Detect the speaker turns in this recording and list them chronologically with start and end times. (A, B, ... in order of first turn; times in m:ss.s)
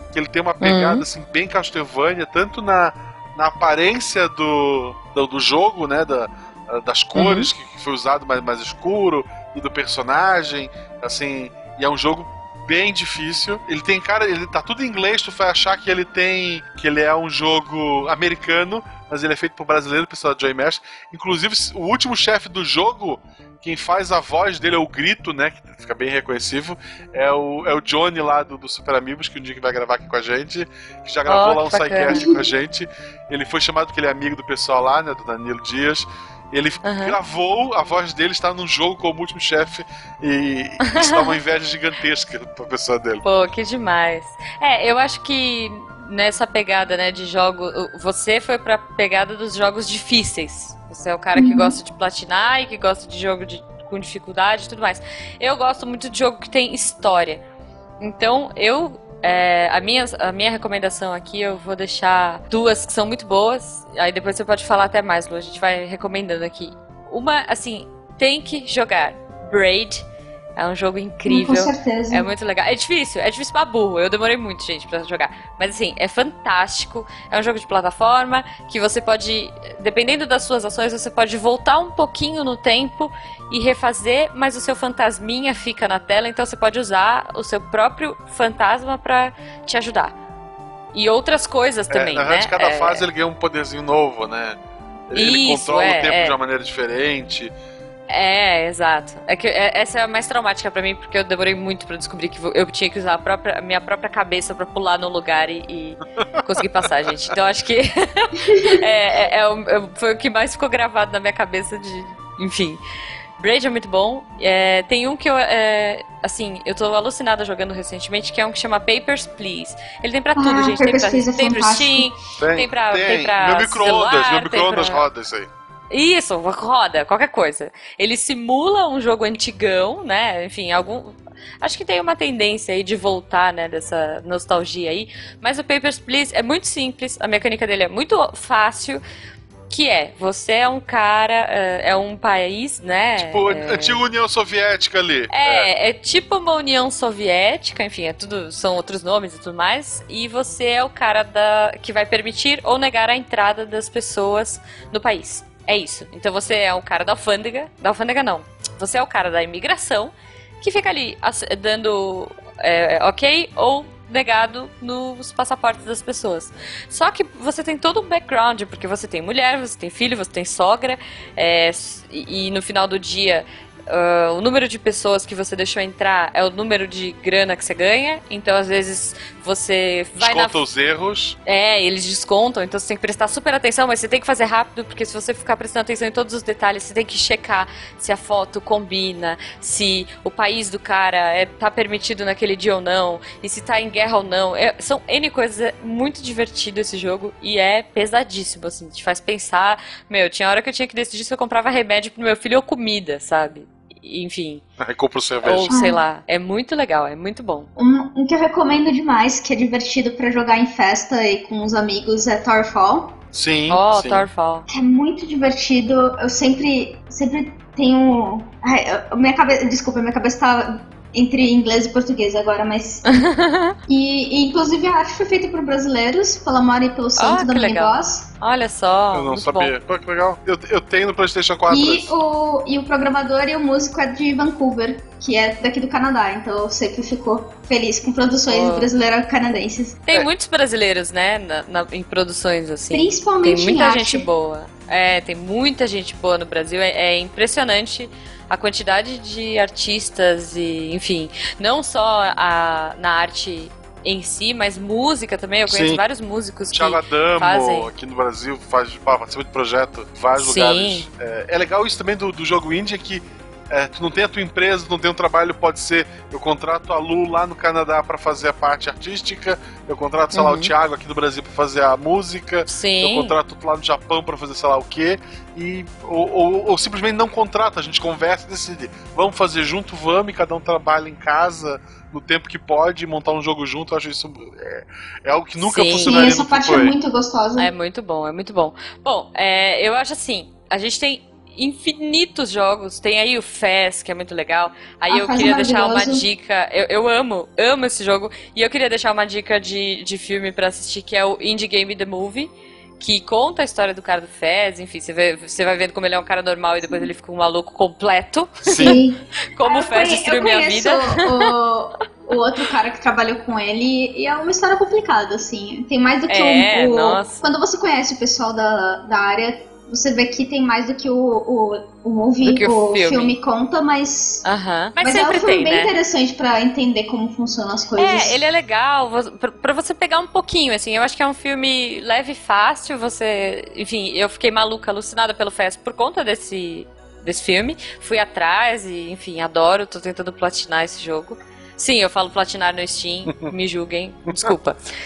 0:00.1-0:43.2 A
0:00.6-0:01.0 B
0:07.2-0:07.5 B
0:31.3-0:32.3 B
0:32.1-0:32.5 C
0:36.8-0:37.2 B
0:40.8-0:41.3 B
0:43.2-0:57.4 B
0:51.4-0:51.8 C
0:58.0-1:10.0 B
1:10.6-1:30.1 B
1:11.3-1:12.3 C
1:30.9-1:33.1 B
1:31.9-1:34.6 A
1:35.1-1:37.5 A
1:35.2-1:36.4 B
1:38.1-1:52.8 B
1:53.4-2:05.0 B
2:00.4-2:02.1 C
2:02.4-2:05.5 A
2:05.9-2:19.0 B
2:19.7-2:24.0 B
2:23.2-2:25.7 A
2:25.3-3:00.6 B
3:00.2-3:01.4 A
3:01.5-3:24.6 B
3:24.8-3:25.7 A
3:25.4-3:27.7 B
3:25.7-3:26.0 C
3:27.8-3:33.2 C
3:33.3-3:34.3 A
3:33.7-3:34.6 B
3:34.7-3:43.2 C
3:43.1-3:43.8 B
3:43.9-3:48.3 C
3:47.2-3:49.7 B
3:49.1-3:52.2 A
3:51.7-4:00.0 C
3:58.5-3:58.9 B
4:00.1-4:17.9 B
4:02.9-4:04.3 C
4:15.7-4:16.0 A
4:16.7-4:47.0 A
4:20.4-4:21.1 B
4:30.3-4:30.7 B
4:32.7-4:33.4 B
4:45.6-4:46.4 B
4:46.0-4:47.7 C
4:47.6-5:09.0 B
4:55.1-4:56.2 C
5:08.7-5:09.0 A
5:08.8-5:24.4 C
5:09.6-5:11.5 B
5:16.3-5:17.4 B
5:22.4-5:23.4 B
5:24.4-5:25.9 B
5:25.0-5:28.4 C
5:28.0-5:44.8 B
5:44.3-5:44.5 A